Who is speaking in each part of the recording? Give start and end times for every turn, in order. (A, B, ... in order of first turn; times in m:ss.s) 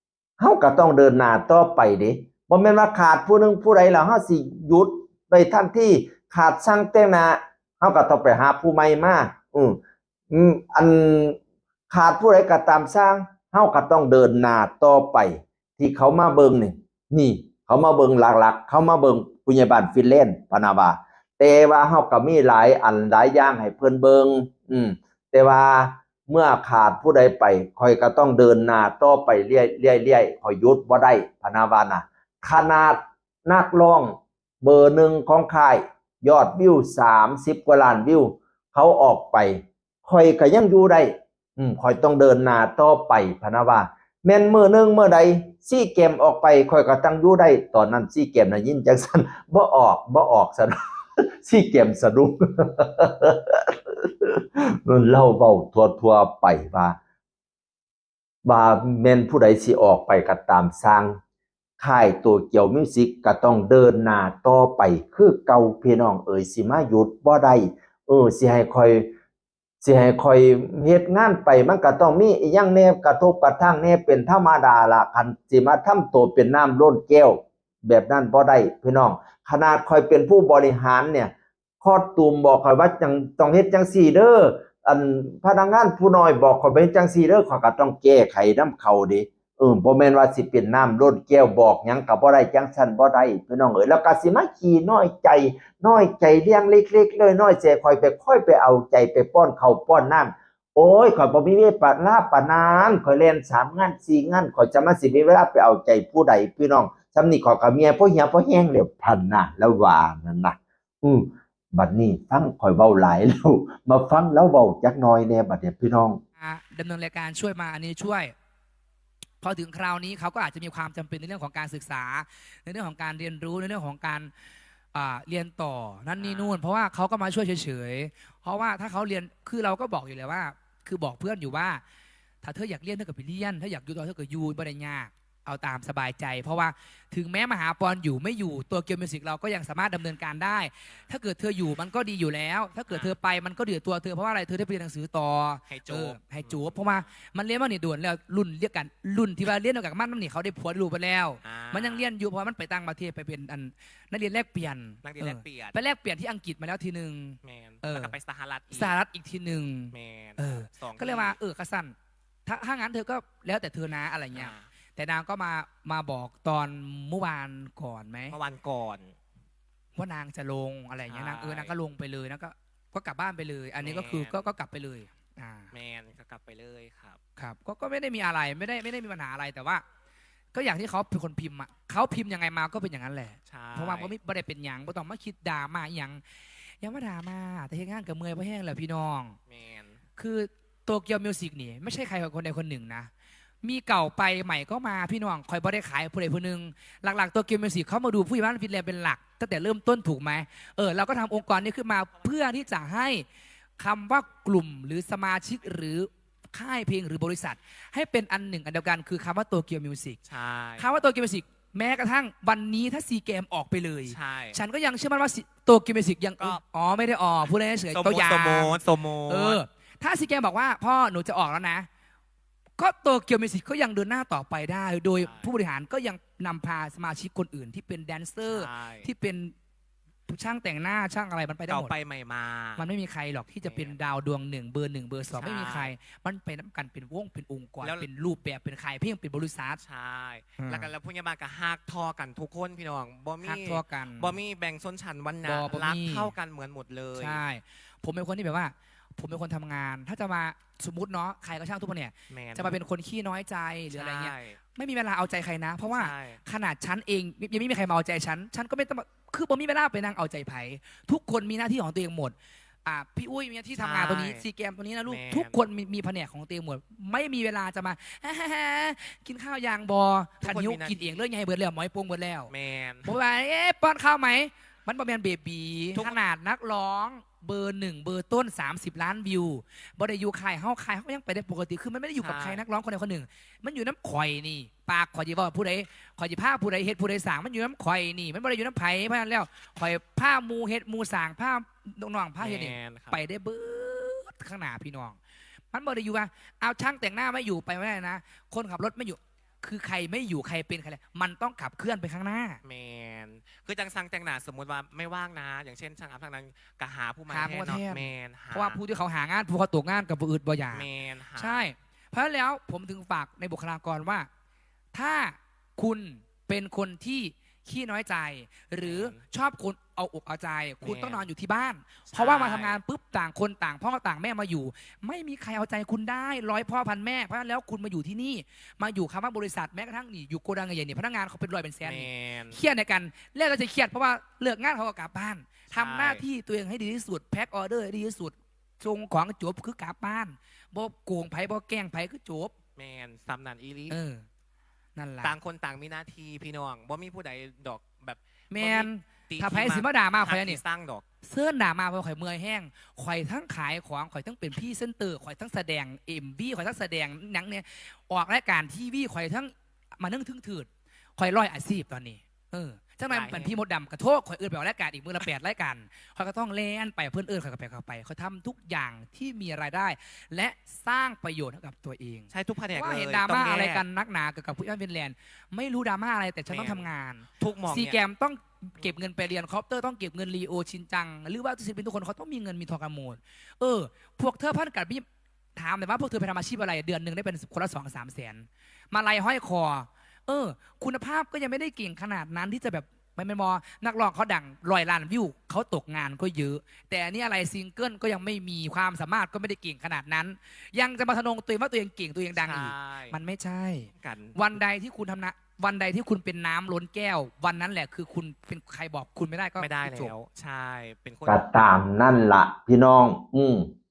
0:00.4-0:09.8 A
0:10.3-0:11.4 A
0:11.9-0:50.8 A
0:51.4-0:53.7 A
0:54.6-0:57.0 A
0:58.4-1:01.2 A
1:01.8-1:09.1 A
1:09.8-1:56.2 A
1:56.4-1:58.3 B
1:59.4-2:04.3 B
2:04.9-2:11.8 B
2:06.2-2:06.6 C
2:12.4-2:38.1 B
2:22.9-2:23.1 C
2:25.7-2:27.0 C
2:31.4-2:32.0 C
2:35.0-2:35.8 C
2:37.4-2:38.9 C
2:38.7-2:41.9 B
2:39.9-2:41.4 C
2:42.4-2:48.4 B
2:44.3-2:44.7 C
2:48.3-2:49.2 C
2:50.0-2:55.7 B
2:51.1-2:51.8 C
2:53.8-2:54.5 C
2:55.7-2:57.2 C
2:57.4-2:59.8 B
3:00.5-3:09.4 B
3:03.5-3:04.1 C
3:09.5-3:10.0 C
3:10.2-3:13.1 B
3:13.6-3:23.2 B
3:23.8-3:30.2 B
3:30.3-3:30.9 C
3:30.8-3:41.9 B
3:34.1-3:34.6 C
3:37.9-3:39.6 C
3:42.8-3:49.5 B
3:45.2-3:45.5 C
3:48.4-3:49.1 C
3:50.3-3:51.9 B
3:51.7-3:52.8 C
3:52.8-3:59.8 B
3:53.6-3:54.0 C
3:55.3-3:55.9 C
3:57.8-3:58.1 C
3:59.8-4:07.4 C
4:00.6-4:00.9 B
4:03.4-4:04.4 B
4:05.4-4:06.3 B
4:07.2-4:32.5 B
4:12.3-4:12.8 C
4:13.9-4:14.6 C
4:15.8-4:16.4 C
4:23.7-4:24.4 C
4:25.0-4:25.6 C
4:30.4-4:31.2 C
4:32.5-4:33.1 C
4:33.0-4:55.2 B
4:35.9-4:36.2 C
4:42.2-4:42.6 C
4:52.4-4:53.2 C
4:55.7-5:02.6 B
5:02.6-5:08.8 C
5:07.3-5:14.3 B
5:10.7-5:11.7 C
5:14.9-5:42.5 B
5:18.8-5:19.2 C
5:20.8-5:21.3 C
5:22.1-5:22.8 C
5:31.8-5:32.6 C
5:35.7-5:36.2 C
5:42.8-5:44.0 C
5:43.9-5:44.2 B
5:45.0-5:45.3 B
5:45.2-5:51.0 C
5:48.5-5:50.6 B
5:51.2-6:25.0 B
6:03.1-6:03.6 C
6:12.3-6:13.8 C
6:16.4-6:18.0 C
6:25.6-6:50.1 B
6:42.3-6:43.2 C
6:44.0-6:44.4 C
6:49.6-6:51.4 C
6:51.3-6:53.7 A